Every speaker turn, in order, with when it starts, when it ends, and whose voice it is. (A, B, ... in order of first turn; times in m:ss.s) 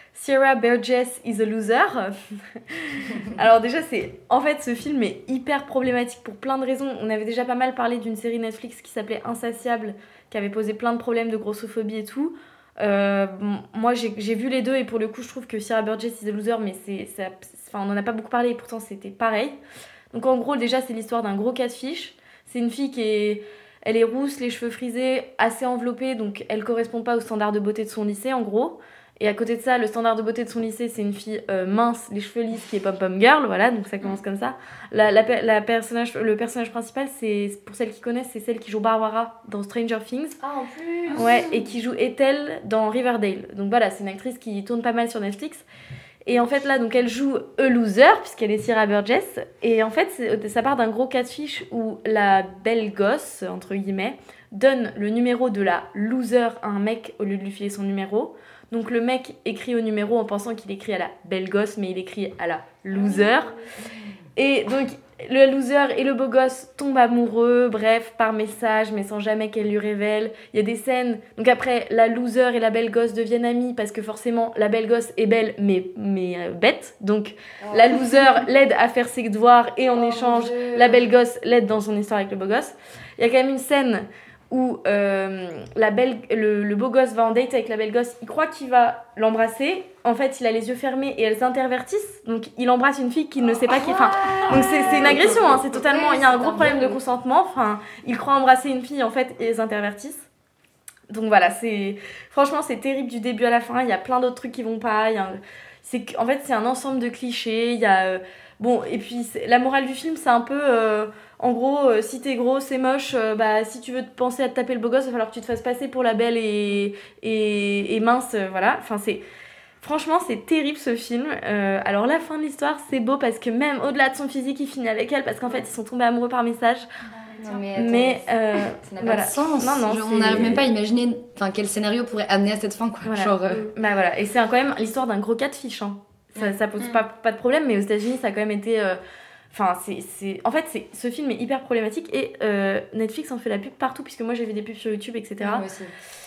0:00.1-0:19.6 A
0:20.1-0:40.4 A
0:40.4-0:41.6 B
0:41.1-0:45.6 A
0:46.2-1:03.5 A
1:04.4-1:40.2 A
1:17.6-1:17.9 B
1:19.9-1:21.0 B
1:33.7-1:37.0 B
1:41.1-1:59.2 A
1:59.8-2:06.9 A
2:07.4-2:08.2 B
2:07.8-2:10.6 A
2:08.8-2:13.7 B
2:13.0-2:19.0 A
2:19.5-2:25.6 A
2:25.4-2:25.9 B